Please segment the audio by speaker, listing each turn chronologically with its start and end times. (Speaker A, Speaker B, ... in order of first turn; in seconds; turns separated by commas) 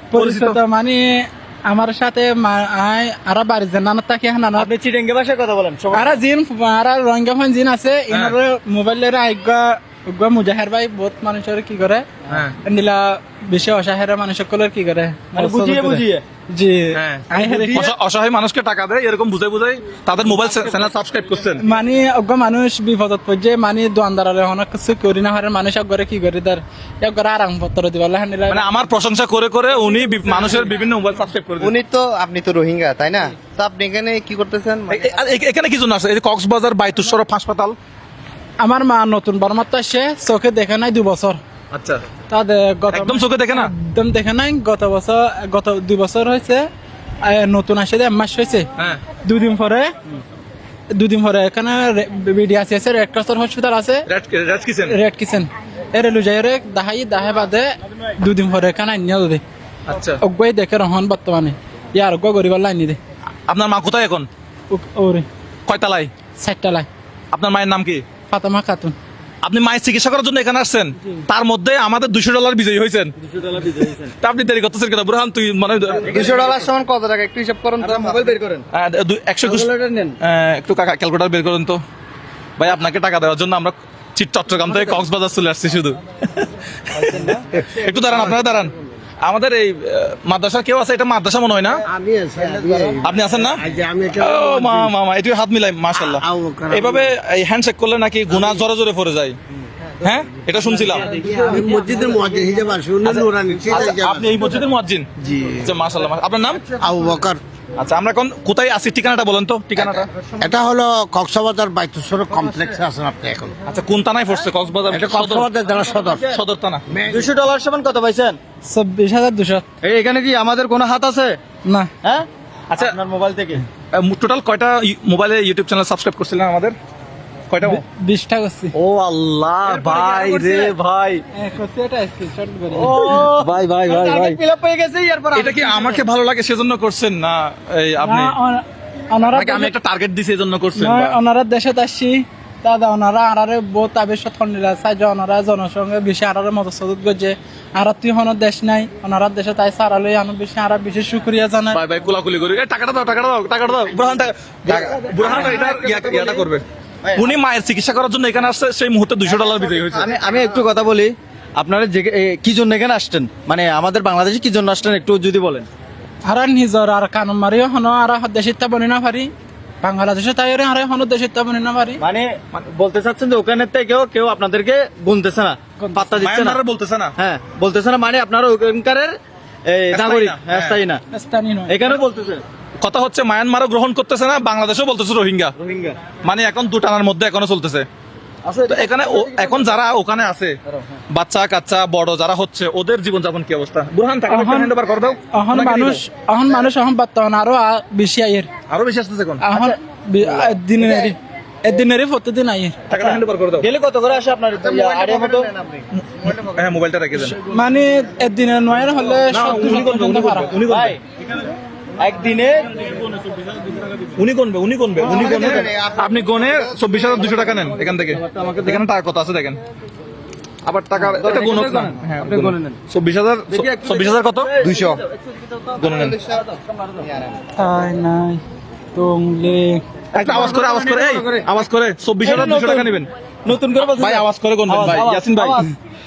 Speaker A: 0.1-4.7, Speaker B: 0.1-0.6, Speaker C: 4.6-6.2, Speaker A: 5.9-12.1, Speaker B: 12.3-12.6, Speaker A: 12.6-17.9, Speaker C: 15.3-16.2, Speaker B: 16.9-21.6, Speaker C: 17.4-17.9, Speaker C: 20.2-20.9, Speaker A: 21.6-28.9, Speaker B: 28.5-31.8, Speaker D: 31.6-35.1, Speaker B: 34.9-37.8, Speaker A: 38.6-41.4, Speaker B: 41.7-42.0, Speaker A: 42.3-46.7, Speaker B: 42.9-43.7, Speaker A: 47.2-48.7, Speaker A: 49.2-49.9, Speaker A: 50.9-54.1, Speaker B: 54.0-55.0, Speaker A: 54.9-59.4, Speaker B: 59.9-60.2, Speaker A: 60.2-63.0, Speaker B: 63.5-64.3, Speaker A: 64.7-65.2, Speaker B: 65.7-66.1, Speaker A: 66.4-66.9, Speaker B: 67.3-68.0, Speaker A: 68.3-68.9, Speaker B: 69.4-73.1, Speaker C: 73.2-74.1, Speaker B: 74.2-76.1, Speaker D: 76.0-78.3, Speaker C: 76.0-76.7, Speaker C: 77.8-78.6, Speaker B: 78.7-79.7, Speaker C: 79.4-80.2, Speaker B: 80.2-81.8, Speaker B: 82.6-91.8, Speaker C: 84.6-85.0, Speaker C: 86.9-87.5, Speaker E: 91.8-94.9, Speaker C: 92.4-93.4, Speaker B: 93.0-93.6, Speaker B: 94.2-99.3, Speaker E: 95.9-97.1, Speaker B: 100.0-101.1, Speaker E: 101.1-104.3, Speaker B: 103.0-106.6, Speaker E: 106.8-107.4, Speaker B: 107.8-110.1, Speaker E: 110.4-113.5, Speaker B: 113.7-115.5, Speaker E: 114.9-116.3, Speaker C: 116.0-116.4, Speaker B: 116.3-116.8, Speaker E: 116.9-117.3, Speaker C: 117.1-118.4, Speaker A: 118.6-119.6, Speaker C: 119.8-121.4, Speaker A: 121.6-121.9, Speaker C: 122.0-123.6, Speaker B: 122.7-123.0, Speaker B: 123.9-126.8, Speaker B: 127.5-127.8, Speaker A: 127.8-128.7, Speaker B: 128.7-131.2, Speaker C: 129.7-130.7, Speaker A: 131.3-133.0, Speaker C: 132.7-136.0, Speaker B: 133.0-134.4, Speaker B: 135.3-138.3, Speaker A: 138.0-139.7, Speaker B: 139.3-141.2, Speaker A: 140.8-151.8, Speaker B: 151.7-156.6, Speaker C: 155.2-156.4, Speaker C: 157.0-157.3, Speaker B: 157.1-160.1, Speaker C: 159.9-165.7, Speaker A: 166.2-169.3, Speaker A: 169.8-172.0, Speaker C: 172.0-176.6, Speaker A: 175.8-176.1, Speaker B: 176.2-177.1, Speaker C: 177.2-179.1, Speaker C: 179.7-181.0, Speaker B: 179.9-180.8, Speaker A: 181.1-182.0, Speaker C: 181.7-182.4, Speaker B: 182.8-185.5, Speaker C: 185.6-186.0, Speaker B: 186.2-187.8, Speaker C: 188.4-189.8, Speaker B: 188.7-190.6, Speaker C: 190.7-191.0, Speaker B: 191.1-196.0, Speaker A: 194.3-194.7, Speaker A: 195.3-198.5, Speaker B: 198.7-199.4, Speaker A: 199.4-202.8, Speaker C: 199.5-201.1, Speaker B: 202.9-203.7, Speaker C: 202.9-205.5, Speaker D: 204.6-206.3, Speaker B: 205.9-207.3, Speaker A: 207.1-210.5, Speaker B: 209.3-211.0, Speaker C: 210.7-211.0, Speaker C: 212.0-213.0, Speaker B: 214.2-219.6, Speaker C: 215.0-215.8, Speaker D: 215.2-217.5, Speaker C: 218.0-218.8, Speaker B: 220.6-224.5, Speaker C: 220.9-222.8, Speaker C: 223.5-227.1, Speaker D: 224.6-225.0, Speaker B: 225.8-226.2, Speaker D: 225.8-226.4, Speaker A: 227.5-228.4, Speaker A: 228.9-229.8, Speaker B: 230.1-233.1, Speaker C: 230.2-231.5, Speaker C: 232.2-235.7, Speaker B: 233.8-235.6